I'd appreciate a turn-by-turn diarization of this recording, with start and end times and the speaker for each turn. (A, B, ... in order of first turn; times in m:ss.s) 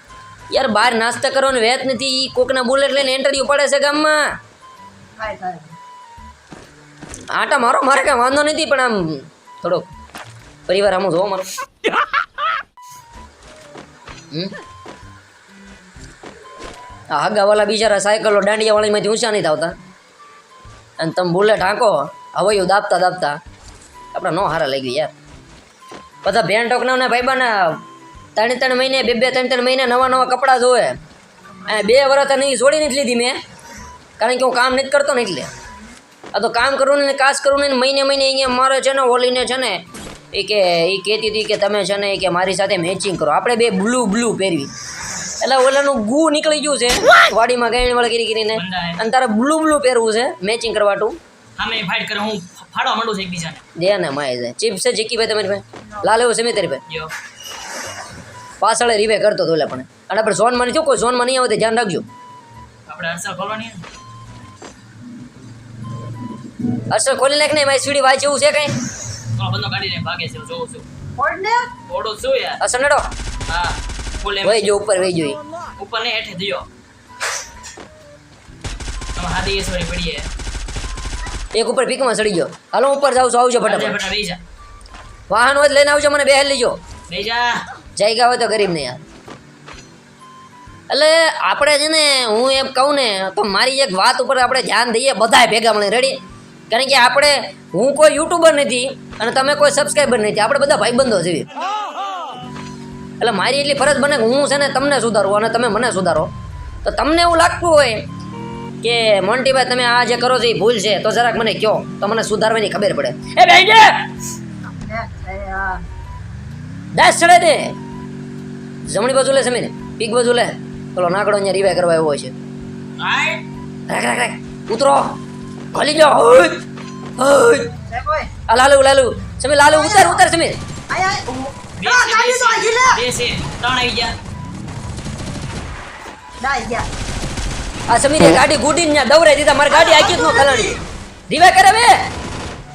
0:00.5-0:04.4 A
0:05.2-0:05.8 B
0:07.3-0:09.9 A
0:10.7-0:11.4 A
0:17.1-0:19.8 A
0:21.0-0:23.4 A
0:24.1-0:25.1 A
0:26.2-0:27.8 A
0:28.4-0:31.0 A
0:31.4-0:32.2 B
0:31.7-0:33.4 A
0:34.2-0:35.5 A
0:36.3-0:44.7 A
0:45.4-0:51.2 A
0:48.5-0:49.0 C
0:51.6-0:53.6 C
0:53.8-0:56.8 A
0:55.8-0:56.1 B
0:58.6-1:02.0 A
1:02.9-1:03.8 C
1:06.9-1:08.8 A
1:09.4-1:10.8 C
1:11.2-1:11.7 B
1:11.9-1:12.6 C
1:12.6-1:13.1 A
1:13.5-1:14.8 C
1:14.4-1:15.4 A
1:15.8-1:16.7 C
1:19.2-1:20.3 C
1:21.5-1:24.0 A
1:23.6-1:24.4 C
1:25.3-1:26.8 A
1:27.1-1:27.6 C
1:28.0-1:29.0 A
1:30.9-1:41.5 A
1:43.2-1:46.3 A
1:46.8-1:48.0 A
1:48.8-1:54.1 A
1:54.6-1:55.8 B
1:56.9-1:57.8 A
1:58.8-2:02.3 A
2:03.0-2:03.4 C
2:03.9-2:05.2 A
2:05.7-2:06.6 A
2:07.2-2:07.7 A
2:07.8-2:08.3 B
2:08.5-2:10.6 A
2:09.6-2:10.2 B
2:10.9-2:13.0 B
2:11.8-2:14.1 C
2:16.4-2:16.8 B
2:17.9-2:20.7 A
2:19.7-2:20.8 B
2:21.3-2:22.0 A